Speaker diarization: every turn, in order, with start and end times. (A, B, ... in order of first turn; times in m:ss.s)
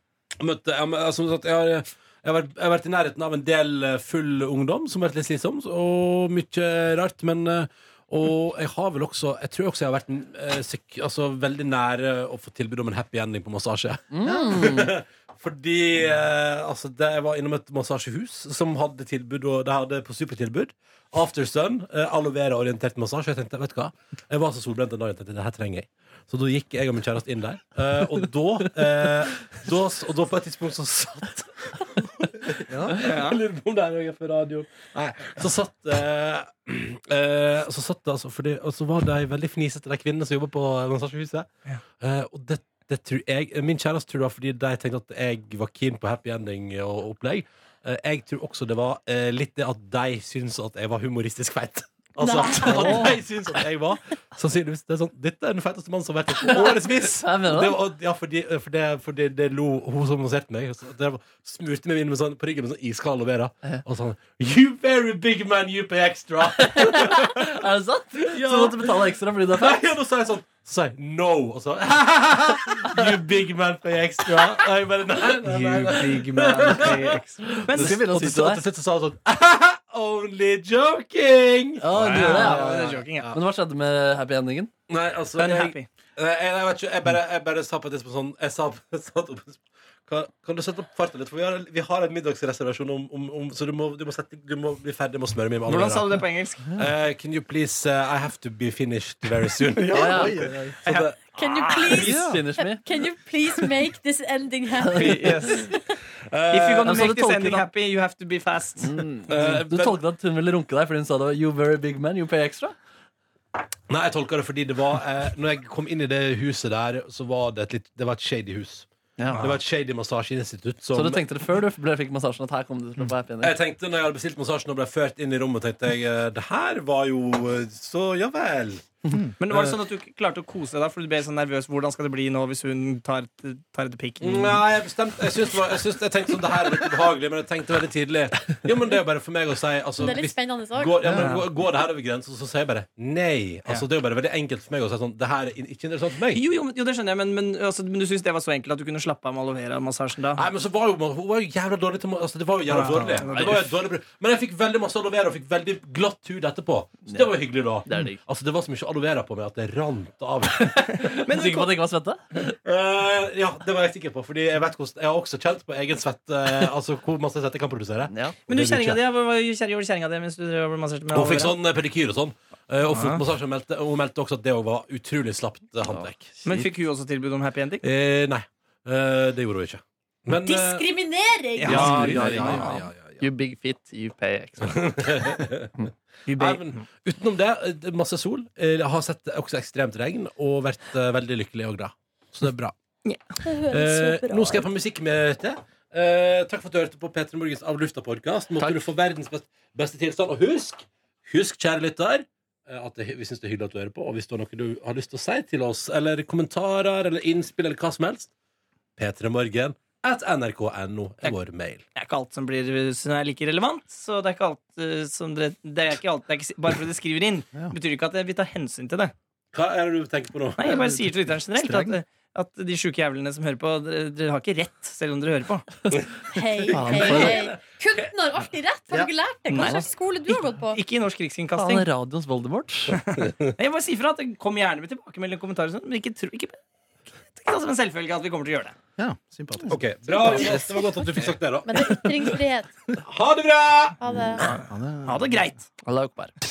0:00.4-0:41.5 A
0:14.1-0:14.9 B
0:32.7-0:33.0 C
0:33.0-0:33.4 D
0:42.0-1:07.6 A
0:52.2-0:53.2 E
0:52.6-0:53.2 B
0:57.2-0:57.8 B
1:06.6-1:09.8 B
1:08.2-1:23.4 A
1:15.4-1:18.6 D
1:17.5-1:18.6 B
1:21.8-1:24.7 B
1:21.9-1:23.3 D
1:24.9-1:41.2 A
1:25.4-1:25.9 D
1:35.7-1:36.8 D
1:39.7-1:42.1 D
1:39.9-1:40.7 B
1:40.1-1:40.5 C
1:41.4-1:46.0 E
1:41.9-1:42.9 B
1:42.0-1:42.4 C
1:44.9-1:45.4 B
1:44.9-1:45.7 D
1:46.3-1:47.1 A
1:46.5-1:49.0 D
1:46.8-1:47.7 B
1:48.8-1:52.7 B
1:49.3-1:50.0 A
1:53.9-2:01.2 A
1:59.2-1:59.6 B
2:00.9-2:03.5 B
2:03.4-2:08.9 A
2:09.4-2:14.6 D
2:14.2-2:26.4 A
2:20.0-2:21.2 E
2:21.0-2:21.3 C
2:21.2-2:21.4 D
2:26.3-2:30.4 D
2:30.4-2:41.4 A
2:32.7-2:33.7 D
2:32.7-2:33.6 B
2:37.1-2:37.3 B
2:37.8-2:38.2 B
2:40.6-2:42.5 B
2:41.0-2:41.7 D
2:42.5-2:49.0 A
2:48.1-2:48.4 B
2:48.5-2:51.5 D
2:51.1-2:56.7 A
2:52.9-2:53.2 D
2:55.9-2:56.1 B
2:56.4-2:57.8 D
2:57.8-3:00.9 A
3:00.3-3:02.2 E
3:01.6-3:02.8 D
3:01.6-3:03.3 A
3:01.7-3:05.2 B
3:04.6-3:05.7 A
3:06.3-3:06.9 D
3:06.3-3:12.7 A
3:13.4-3:14.7 E
3:13.6-3:28.3 A
3:29.0-3:31.8 A
3:31.9-3:39.1 D
3:39.5-3:40.6 A
3:40.6-3:45.8 D
3:46.3-3:50.8 E
3:46.7-3:47.5 B
3:49.5-3:51.9 D
3:49.6-3:49.8 B
3:51.5-3:53.0 B
3:52.9-3:56.6 D
3:53.2-3:53.5 A
3:57.3-3:58.7 D
3:59.0-3:59.8 C
3:59.7-4:02.2 A
4:00.2-4:00.8 B
4:01.6-4:02.9 E
4:03.0-4:04.0 A
4:04.0-4:04.5 E
4:04.2-4:05.4 C
4:04.4-4:05.6 D
4:05.8-4:06.3 B